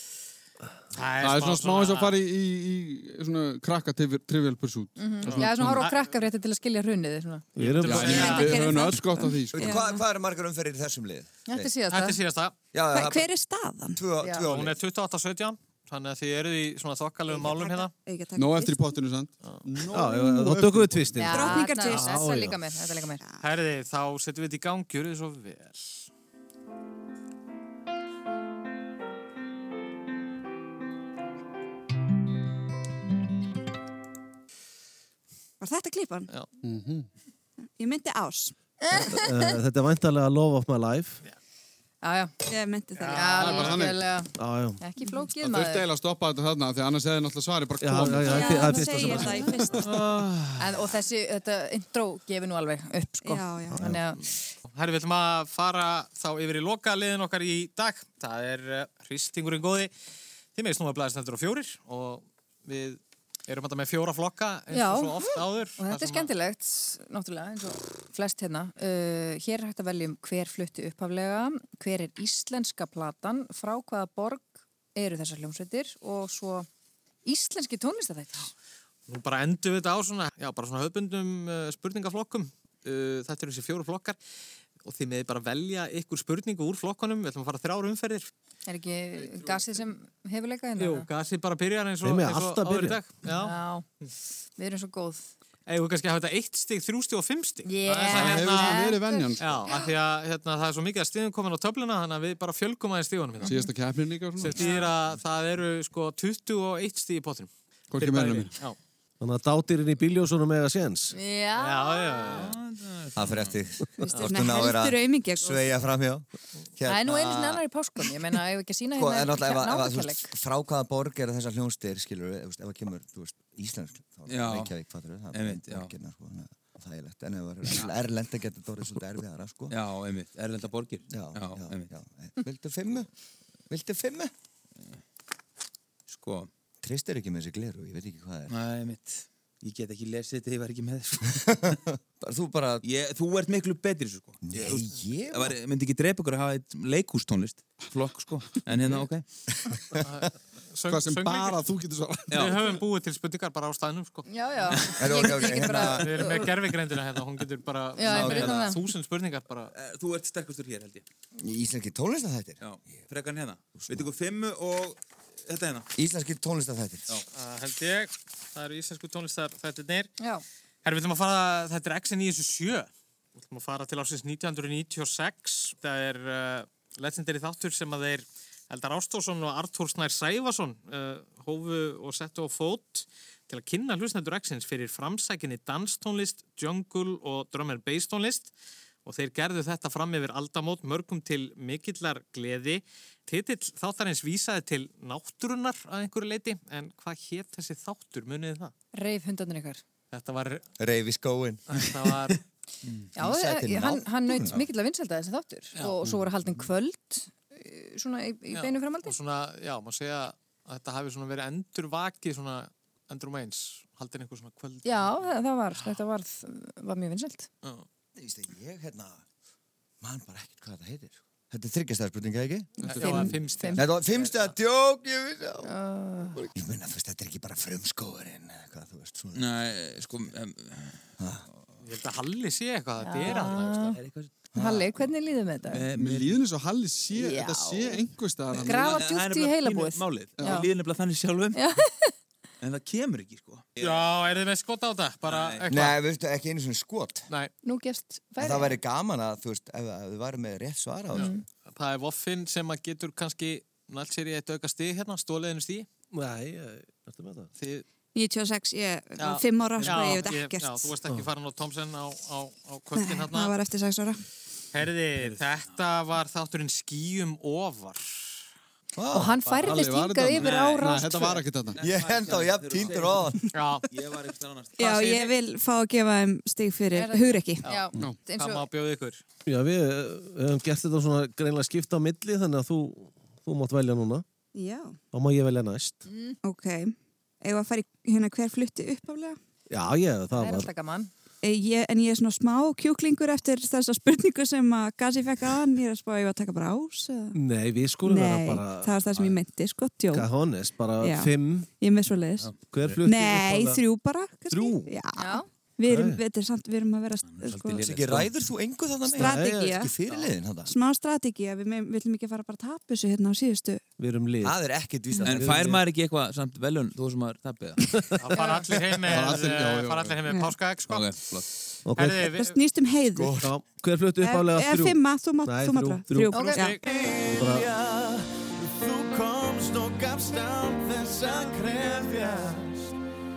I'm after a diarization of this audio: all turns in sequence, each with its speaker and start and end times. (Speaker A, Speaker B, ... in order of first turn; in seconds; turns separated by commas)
Speaker A: 0.9-2.2, Speaker B: 1.2-5.8, Speaker C: 5.0-7.5, Speaker A: 5.2-6.0, Speaker D: 7.6-8.5, Speaker A: 7.6-8.7, Speaker B: 7.6-9.7, Speaker E: 7.9-10.0, Speaker F: 9.5-11.7, Speaker C: 11.5-12.2, Speaker A: 11.9-12.5, Speaker F: 12.7-13.3, Speaker E: 12.9-14.0, Speaker F: 13.9-14.8, Speaker C: 14.2-14.5, Speaker A: 14.4-17.9, Speaker E: 18.0-19.0, Speaker B: 18.4-21.2, Speaker D: 19.9-22.6, Speaker C: 21.2-23.2, Speaker E: 21.3-22.2, Speaker A: 21.9-22.2, Speaker A: 23.4-26.1, Speaker E: 35.6-36.3, Speaker B: 36.6-37.1, Speaker E: 37.8-38.5, Speaker C: 38.8-39.5, Speaker D: 38.9-41.2, Speaker C: 42.0-42.3, Speaker E: 42.5-43.7, Speaker A: 43.0-43.8, Speaker C: 43.1-45.9, Speaker B: 43.4-44.0, Speaker D: 44.4-44.8, Speaker B: 45.4-50.3, Speaker D: 47.8-50.0, Speaker E: 48.2-49.9, Speaker C: 50.6-54.4, Speaker E: 53.2-53.9, Speaker D: 53.7-54.0, Speaker A: 54.7-59.9, Speaker A: 60.5-66.3, Speaker C: 64.7-76.7, Speaker C: 77.3-78.5, Speaker A: 79.1-84.2, Speaker A: 84.8-88.3, Speaker C: 88.7-91.1, Speaker B: 89.2-89.6, Speaker A: 90.8-93.5, Speaker D: 92.0-93.0, Speaker C: 93.3-93.8, Speaker C: 94.6-95.3, Speaker A: 95.7-103.7, Speaker C: 97.7-99.8, Speaker B: 98.1-99.6, Speaker B: 103.4-104.7, Speaker A: 104.4-108.8, Speaker C: 104.5-104.9, Speaker B: 107.9-108.5, Speaker D: 109.2-111.1, Speaker C: 111.1-112.3, Speaker A: 111.6-112.5, Speaker G: 112.2-113.6, Speaker F: 113.2-116.2, Speaker E: 114.0-115.6, Speaker F: 116.8-117.4, Speaker C: 116.8-120.3, Speaker F: 119.0-129.7, Speaker G: 124.3-124.7, Speaker G: 125.3-125.9, Speaker G: 129.7-131.9, Speaker F: 131.1-133.1, Speaker F: 133.7-134.3, Speaker G: 136.1-136.5, Speaker F: 136.8-138.5, Speaker G: 138.5-141.4, Speaker F: 141.3-142.8, Speaker G: 142.8-149.2, Speaker F: 144.4-145.5, Speaker A: 150.1-151.6, Speaker B: 150.9-152.8, Speaker G: 152.3-152.6, Speaker A: 152.3-154.3, Speaker C: 154.3-156.4, Speaker F: 154.9-156.4, Speaker A: 155.7-159.7, Speaker C: 158.0-158.8, Speaker F: 158.1-158.5, Speaker G: 158.2-158.5, Speaker G: 159.7-161.0, Speaker F: 161.4-163.0, Speaker G: 162.6-165.9, Speaker F: 163.8-164.1, Speaker F: 166.0-167.1, Speaker A: 167.3-170.1, Speaker A: 170.8-188.5, Speaker A: 189.1-198.7, Speaker C: 198.9-199.8, Speaker A: 200.1-200.7, Speaker F: 200.8-201.8, Speaker A: 201.7-202.4, Speaker F: 203.2-204.6, Speaker C: 203.2-209.2, Speaker A: 208.5-215.2, Speaker C: 214.8-217.5, Speaker F: 218.2-219.2, Speaker F: 220.0-222.8, Speaker B: 222.8-223.4, Speaker A: 222.8-224.5, Speaker C: 223.0-223.8, Speaker F: 223.8-225.7, Speaker C: 225.6-226.4, Speaker F: 226.3-229.5, Speaker G: 229.3-231.1, Speaker F: 231.2-231.4, Speaker A: 231.8-233.9, Speaker C: 233.0-234.0, Speaker G: 233.3-234.3, Speaker F: 234.5-234.9, Speaker C: 234.6-235.8, Speaker G: 235.7-236.4, Speaker B: 235.9-238.9, Speaker C: 237.1-238.0, Speaker G: 238.5-241.6, Speaker C: 238.6-240.7, Speaker B: 240.4-240.7, Speaker C: 241.5-242.1, Speaker G: 242.6-244.1, Speaker A: 243.8-245.9, Speaker G: 245.3-245.7, Speaker F: 245.7-247.3, Speaker C: 247.6-248.8, Speaker F: 248.4-251.4, Speaker A: 251.1-255.9, Speaker C: 251.1-251.4, Speaker D: 256.1-257.5, Speaker A: 257.6-257.9, Speaker E: 258.1-260.9, Speaker A: 259.2-263.6, Speaker E: 263.0-264.2, Speaker A: 264.7-268.4, Speaker F: 269.0-269.4, Speaker C: 269.1-271.4, Speaker A: 269.4-269.9, Speaker B: 269.6-271.8, Speaker A: 270.4-270.8, Speaker G: 271.8-273.3, Speaker F: 271.8-273.4, Speaker A: 273.5-273.9, Speaker G: 273.9-274.9, Speaker E: 274.8-277.7, Speaker A: 274.8-275.3, Speaker C: 276.9-278.6, Speaker A: 277.6-279.2, Speaker D: 279.5-284.2, Speaker E: 284.6-285.0, Speaker D: 285.1-286.0, Speaker C: 286.1-286.4, Speaker E: 286.4-289.4, Speaker D: 289.7-290.7, Speaker C: 290.4-291.1, Speaker E: 291.4-297.4, Speaker D: 297.4-299.0, Speaker E: 298.0-300.3, Speaker G: 299.1-299.4, Speaker D: 300.1-301.7, Speaker E: 301.0-307.8, Speaker G: 302.4-302.7, Speaker D: 302.6-303.8, Speaker D: 304.5-304.9, Speaker C: 305.1-305.5, Speaker D: 305.9-306.2, Speaker G: 307.2-308.4, Speaker F: 307.7-310.7, Speaker E: 309.1-309.9, Speaker D: 309.1-309.8, Speaker E: 310.7-313.8, Speaker D: 314.0-314.6, Speaker F: 314.4-315.7, Speaker G: 315.2-317.9, Speaker D: 315.3-315.9, Speaker A: 318.2-321.1, Speaker C: 318.4-318.6, Speaker B: 319.0-320.2, Speaker G: 320.9-321.5, Speaker D: 321.9-322.3, Speaker A: 321.9-322.6, Speaker E: 322.2-323.5, Speaker F: 323.2-323.5, Speaker D: 323.4-326.5, Speaker E: 324.2-326.9, Speaker C: 326.3-326.8, Speaker A: 326.5-326.8, Speaker H: 326.8-332.9, Speaker D: 327.2-327.7